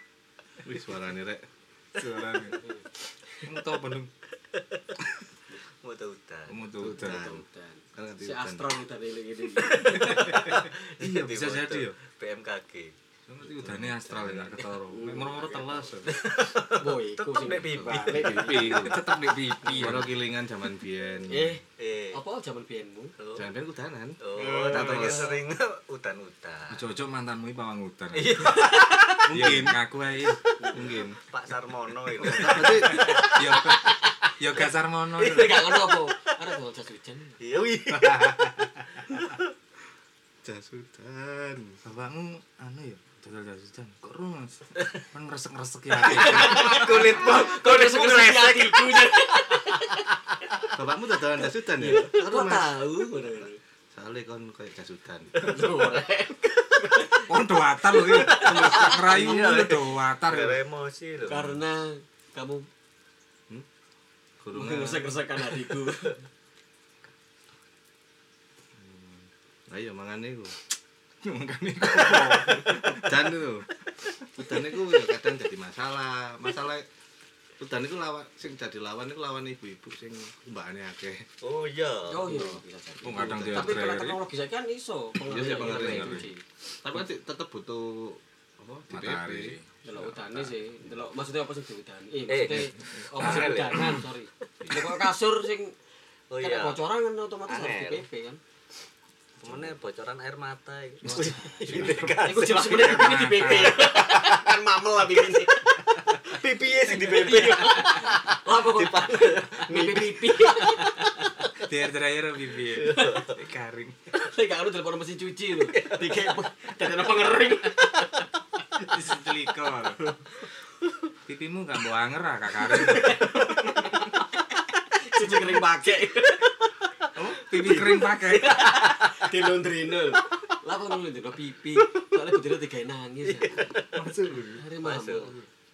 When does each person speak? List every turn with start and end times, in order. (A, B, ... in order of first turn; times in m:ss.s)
0:00.6-0:01.4 A
0:02.0-0:02.6 B
0:03.4-0:04.1 B
0:05.8-0:06.6 C
0:06.5-0:07.2 B
0:06.8-0:07.4 A
0:06.9-0:10.6 D
0:08.0-0:08.7 A
0:09.6-0:12.9 C
0:09.9-0:12.0 B
0:13.3-0:16.1 B
0:13.6-0:14.4 A
0:14.9-0:15.9 D
0:16.1-0:18.6 C
0:16.7-0:19.0 D
0:17.8-0:19.0 A
0:18.5-0:20.1 B
0:19.6-0:20.0 D
0:19.8-0:21.6 A
0:21.3-0:21.6 D
0:21.8-0:22.2 C
0:22.1-0:23.1 D
0:23.2-0:23.5 C
0:23.4-0:25.4 A
0:24.2-0:26.9 C
0:24.4-0:25.4 D
0:26.7-0:30.4 B
0:28.1-0:29.3 C
0:29.3-0:29.8 A
0:30.6-0:31.1 D
0:30.7-0:31.2 A
0:31.2-0:33.3 C
0:32.2-0:33.2 A
0:32.2-0:35.7 B
0:32.5-0:34.3 D
0:35.2-0:37.4 D
0:35.2-0:36.1 C
0:37.4-0:39.5 C
0:37.9-0:39.0 B
0:40.4-0:41.8 A
0:41.8-0:47.2 B
0:46.0-0:50.1 D
0:46.5-0:49.8 C
0:50.7-0:52.8 A
0:51.7-0:53.6 D
0:53.9-0:55.4 A
0:55.4-0:57.3 D
0:57.3-1:00.6 B
0:58.0-0:59.0 D
0:58.1-1:01.6 C
1:01.2-1:02.7 D
1:04.4-1:05.1 A
1:04.5-1:06.2 D
1:08.8-1:10.6 A
1:11.2-1:13.3 B
1:12.1-1:12.3 C
1:13.0-1:13.7 A
1:14.4-1:16.9 A
1:17.6-1:21.3 A
1:21.4-1:22.6 C
1:22.1-1:26.4 D
1:23.0-1:24.2 B
1:23.1-1:23.9 A
1:25.2-1:26.3 A
1:25.5-1:26.3 B
1:26.8-1:29.6 A
1:28.9-1:30.5 B
1:29.8-1:35.7 D
1:32.3-1:34.0 C
1:33.2-1:34.0 B
1:36.3-1:36.8 C
1:36.4-1:38.4 D
1:37.5-1:38.0 C
1:39.4-1:43.1 C
1:41.0-1:44.0 B
1:41.1-1:46.2 D
1:43.9-1:44.3 C
1:46.2-1:50.9 C
1:46.9-1:51.4 D
1:51.6-1:54.0 B
1:52.7-1:53.4 C
1:54.1-1:58.3 D
1:55.7-1:56.4 C
1:58.8-2:00.0 B
2:01.3-2:03.9 B
2:02.7-2:04.2 D
2:05.0-2:06.7 D
2:07.1-2:08.9 B
2:07.5-2:13.8 D
2:13.3-2:13.9 C
2:13.9-2:14.6 B
2:14.6-2:15.4 D
2:14.8-2:15.4 C